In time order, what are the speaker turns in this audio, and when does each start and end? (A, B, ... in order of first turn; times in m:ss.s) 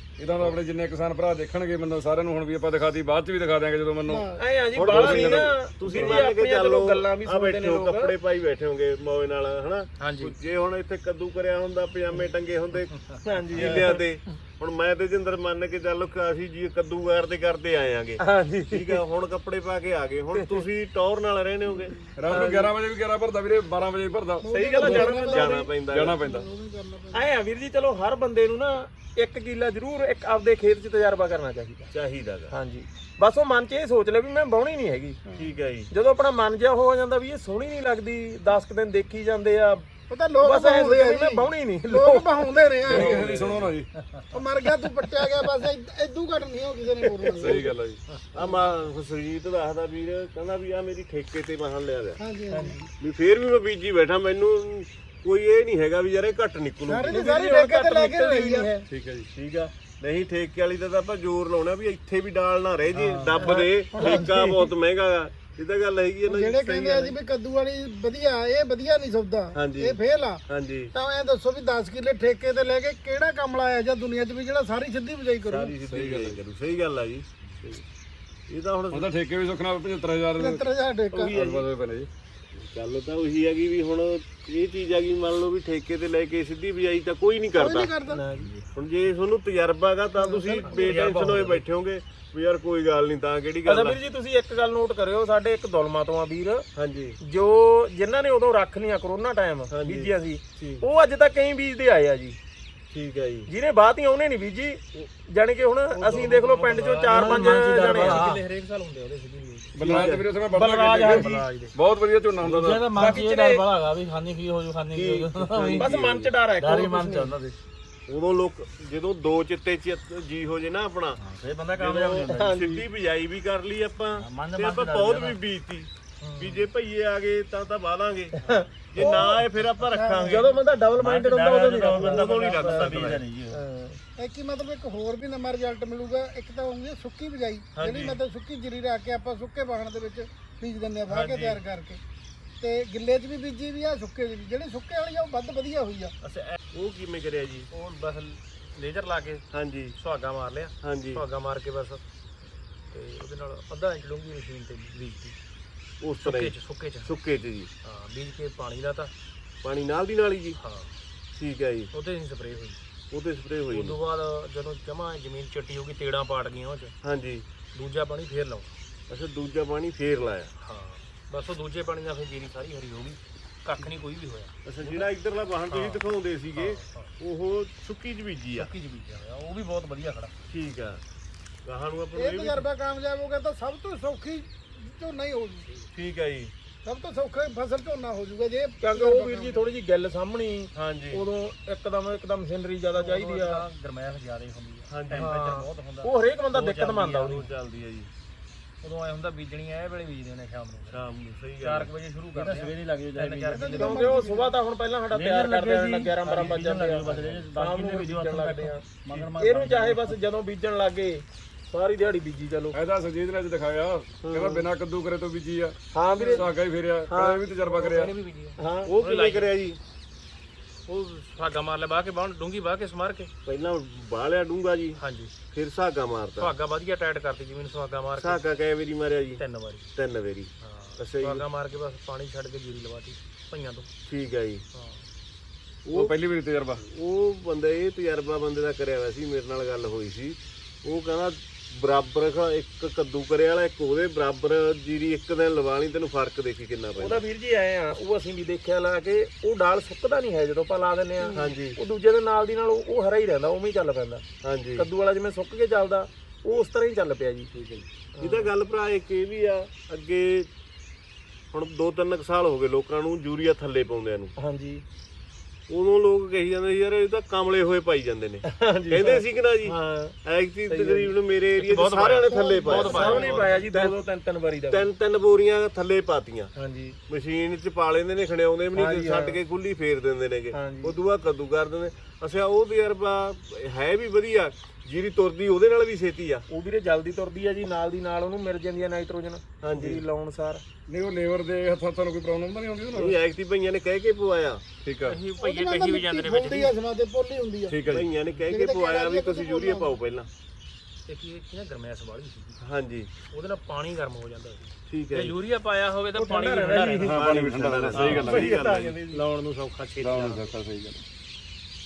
0:00.2-0:04.3 A
0:04.0-0:04.4 B
0:04.4-0:08.2 C
0:04.7-0:13.0 D
0:04.8-0:06.2 A
0:10.0-0:10.4 E
0:13.2-0:14.0 C
0:13.5-0:22.0 D
0:18.2-0:19.0 C
0:22.2-0:25.0 A
0:22.3-0:22.7 C
0:24.4-0:27.3 B
0:24.5-0:25.6 C
0:24.8-0:26.3 D
0:25.9-0:26.5 A
0:27.1-0:31.9 C
0:31.9-0:32.5 D
0:32.5-0:35.2 C
0:35.4-0:35.9 D
0:35.9-0:39.9 C
0:40.1-0:43.2 B
0:40.4-0:42.6 C
0:42.8-0:43.9 A
0:43.0-0:43.7 D
0:44.3-0:47.7 B
0:47.3-0:48.0 A
0:48.3-0:52.2 D
0:52.2-0:52.9 B
0:52.5-0:52.8 C
0:53.0-0:57.3 D
0:56.8-0:58.8 B
0:57.1-0:58.8 C
0:58.9-0:59.3 A
0:59.3-1:07.2 D
1:02.9-1:03.6 E
1:03.4-1:04.7 B
1:06.3-1:15.8 B
1:09.5-1:10.9 D
1:15.5-1:17.3 D
1:15.9-1:16.4 A
1:18.5-1:19.1 D
1:18.9-1:22.1 A
1:20.4-1:21.4 B
1:21.3-1:21.6 D
1:22.6-1:27.9 D
1:27.6-1:28.2 B
1:28.1-1:28.6 C
1:28.7-1:34.0 D
1:30.2-1:30.8 B
1:30.7-1:31.2 C
1:30.8-1:31.6 E
1:33.6-1:36.6 C
1:36.8-1:37.2 D
1:37.2-1:42.4 C
1:39.7-1:40.9 D
1:42.9-1:43.5 D
1:43.5-1:48.3 C
1:45.9-1:50.2 E
1:46.8-1:47.1 D
1:47.1-1:48.4 F
1:49.8-1:53.0 A
1:49.9-1:50.2 D
1:50.5-1:51.5 C
1:51.1-1:51.7 E
1:52.4-1:55.8 F
1:52.9-1:53.7 C
1:53.0-1:53.2 E
1:54.9-1:56.3 D
1:55.7-1:57.3 C
1:56.6-1:57.6 F
1:58.1-2:10.5 D
2:01.2-2:02.8 F
2:02.3-2:02.8 C
2:04.2-2:05.4 F
2:06.2-2:06.6 C
2:08.4-2:09.5 C
2:09.0-2:10.5 B
2:10.2-2:14.0 C
2:10.9-2:13.6 F
2:11.7-2:13.3 D
2:14.2-2:22.0 B
2:17.8-2:18.2 D
2:21.2-2:21.5 D
2:21.2-2:21.6 E
2:22.6-2:26.1 B
2:26.2-2:27.7 D
2:27.7-2:32.0 E
2:29.5-2:30.0 D
2:30.8-2:31.3 D
2:32.9-2:35.4 E
2:36.0-2:37.7 D
2:36.2-2:37.2 E
2:37.8-2:39.1 E
2:39.6-2:40.6 D
2:40.6-2:40.9 E
2:41.3-2:41.9 D
2:41.9-2:42.8 E
2:43.1-2:44.0 D
2:43.7-2:46.9 E
2:47.0-2:47.5 D
2:47.7-2:48.8 E
2:49.1-2:50.5 D
2:50.6-2:55.1 E
2:54.7-2:58.7 D
2:55.7-2:57.1 E
2:58.6-3:00.4 E
3:00.5-3:01.0 D
3:01.6-3:02.7 D
3:02.2-3:05.7 B
3:05.6-3:05.9 E
3:05.9-3:06.5 D
3:06.8-3:09.7 B
3:08.8-3:13.6 C
3:10.8-3:11.3 D
3:13.0-3:17.5 E
3:14.9-3:15.3 D
3:15.1-3:17.4 C
3:16.9-3:18.1 D
3:18.8-3:21.1 E
3:20.9-3:21.9 D
3:21.6-3:24.2 E
3:22.4-3:24.2 F
3:23.5-3:24.5 B
3:23.8-3:32.8 C
3:25.1-3:30.2 F
3:25.2-3:27.6 E
3:29.1-3:29.5 D
3:32.7-3:38.2 A
3:34.2-3:34.7 D
3:35.9-3:36.5 C
3:36.2-3:36.5 E
3:37.1-3:37.4 C
3:37.6-3:39.5 E
3:38.6-3:38.9 C
3:38.9-3:39.8 D
3:40.9-3:43.3 E
3:43.4-3:46.6 D
3:45.0-3:45.3 E
3:46.4-3:48.4 E
3:48.2-3:49.4 D
3:49.4-3:49.9 E
3:50.0-3:51.5 D
3:50.6-3:53.9 E
3:54.1-3:54.6 D
3:54.7-3:55.0 E
3:55.9-3:56.2 D
3:55.9-3:56.8 A
3:56.9-4:07.2 D
4:07.0-4:14.2 C
4:11.3-4:11.8 D
4:14.4-4:14.9 D
4:14.8-4:17.5 C
4:18.2-4:18.5 C
4:18.2-4:20.5 D
4:21.5-4:24.3 D
4:24.4-4:24.8 C
4:25.7-4:34.0 D
4:28.5-4:30.2 C
4:30.7-4:31.1 C
4:31.6-4:33.6 E
4:32.3-4:33.5 B
4:32.6-4:34.9 C
4:34.7-4:36.5 D
4:36.6-4:37.0 C
4:37.1-4:46.4 D
4:38.7-4:39.4 C
4:40.5-4:41.0 C
4:46.5-4:50.6 C
4:49.6-4:50.0 D
4:50.9-4:53.2 A
4:52.9-4:54.6 D
4:54.8-4:55.2 A
4:55.0-4:56.8 E
4:55.4-4:57.8 B
4:57.7-4:58.1 A
4:57.9-5:00.3 D
4:58.4-5:00.0 B
5:01.1-5:02.6 E
5:02.6-5:03.1 D
5:03.3-5:07.2 E
5:04.9-5:05.4 D
5:06.2-5:07.2 C
5:07.0-5:09.2 D
5:07.0-5:08.6 A
5:07.9-5:10.5 E
5:08.3-5:09.0 C
5:10.0-5:11.0 A